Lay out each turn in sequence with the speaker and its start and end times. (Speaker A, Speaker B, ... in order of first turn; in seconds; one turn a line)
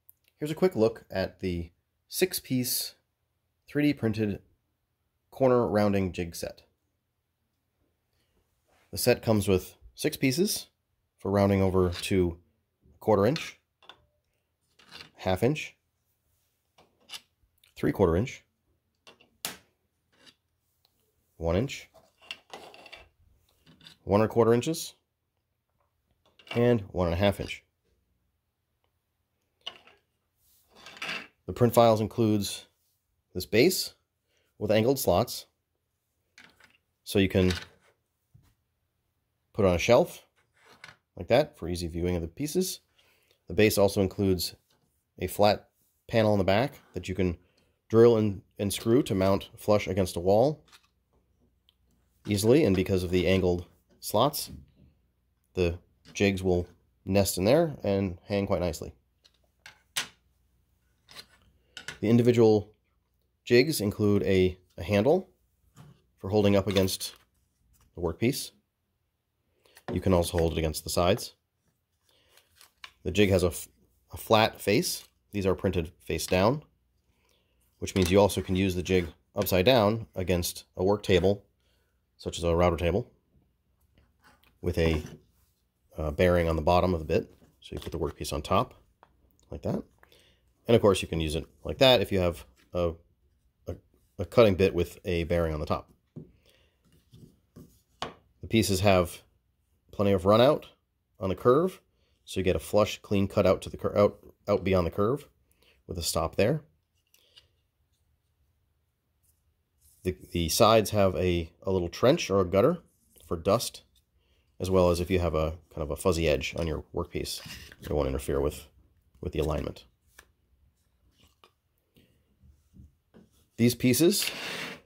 Speaker A: 0.4-3.0
Speaker A: 3.7-4.4
Speaker A: 5.3-6.6
Speaker A: 8.9-10.7
Speaker A: 11.2-12.4
Speaker A: 13.0-13.6
Speaker A: 15.2-15.7
Speaker A: 17.8-18.4
Speaker A: 21.4-21.9
Speaker A: 24.0-24.9
Speaker A: 26.5-27.6
Speaker A: 31.4-32.7
Speaker A: 33.3-33.9
Speaker A: 34.6-35.5
Speaker A: 37.0-37.6
Speaker A: 39.5-40.3
Speaker A: 41.1-42.8
Speaker A: 43.5-44.5
Speaker A: 45.2-50.6
Speaker A: 52.2-54.5
Speaker A: 55.5-58.9
Speaker A: 62.0-62.7
Speaker A: 63.4-65.3
Speaker A: 66.2-67.2
Speaker A: 67.9-68.5
Speaker A: 69.9-71.3
Speaker A: 73.0-76.6
Speaker A: 77.8-81.4
Speaker A: 82.2-83.1
Speaker A: 84.6-85.1
Speaker A: 86.0-88.8
Speaker A: 89.5-89.8
Speaker A: 90.7-93.0
Speaker A: 93.7-95.9
Speaker A: 98.4-99.2
Speaker A: 99.9-105.3
Speaker A: 105.9-106.6
Speaker A: 110.0-113.8
Speaker A: 114.6-118.7
Speaker A: 119.2-119.8
Speaker A: 123.6-124.3